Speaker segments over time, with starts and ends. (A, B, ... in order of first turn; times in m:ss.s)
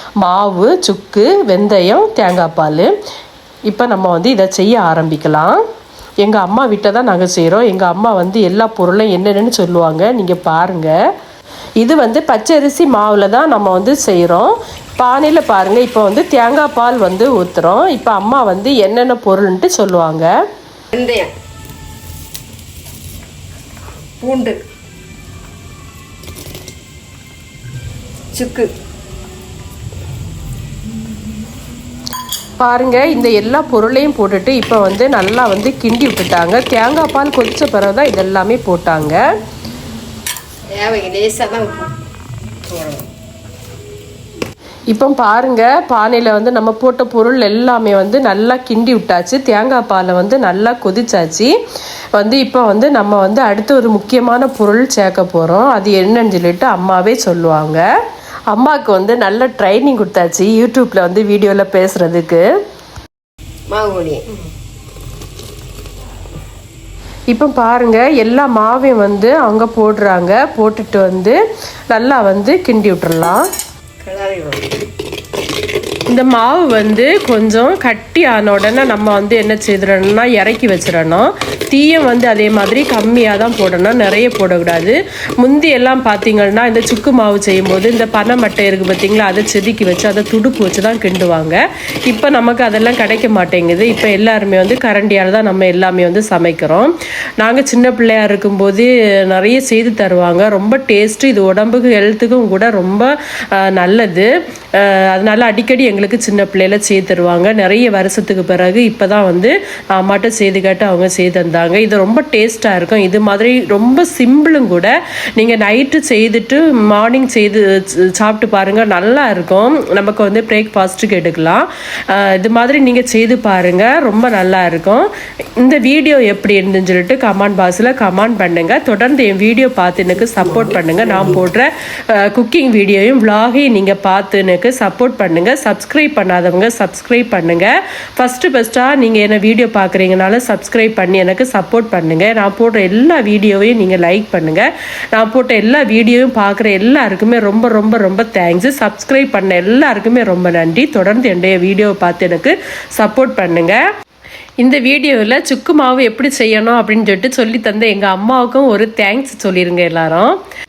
0:00.2-0:02.9 A
0:03.7-0:05.6 A
0:06.2-0:10.9 A
0:11.8-0:20.3 A
0:20.9-0:21.3 B
0:24.2-0:24.6 B
0:28.3-0:28.7 B
0:32.6-0:39.2 A
0:40.7-0:41.9 B
0:42.7-0:43.1 B
0:44.9-0:51.5 A
0:52.1-0:57.8 A
0:58.5-1:02.4 A
1:03.7-1:04.4 B
1:07.3-1:11.4 A
1:11.9-1:13.4 A
1:14.0-1:14.7 B
1:16.1-2:05.1 A
2:05.6-2:33.8 A
2:34.6-2:40.4 A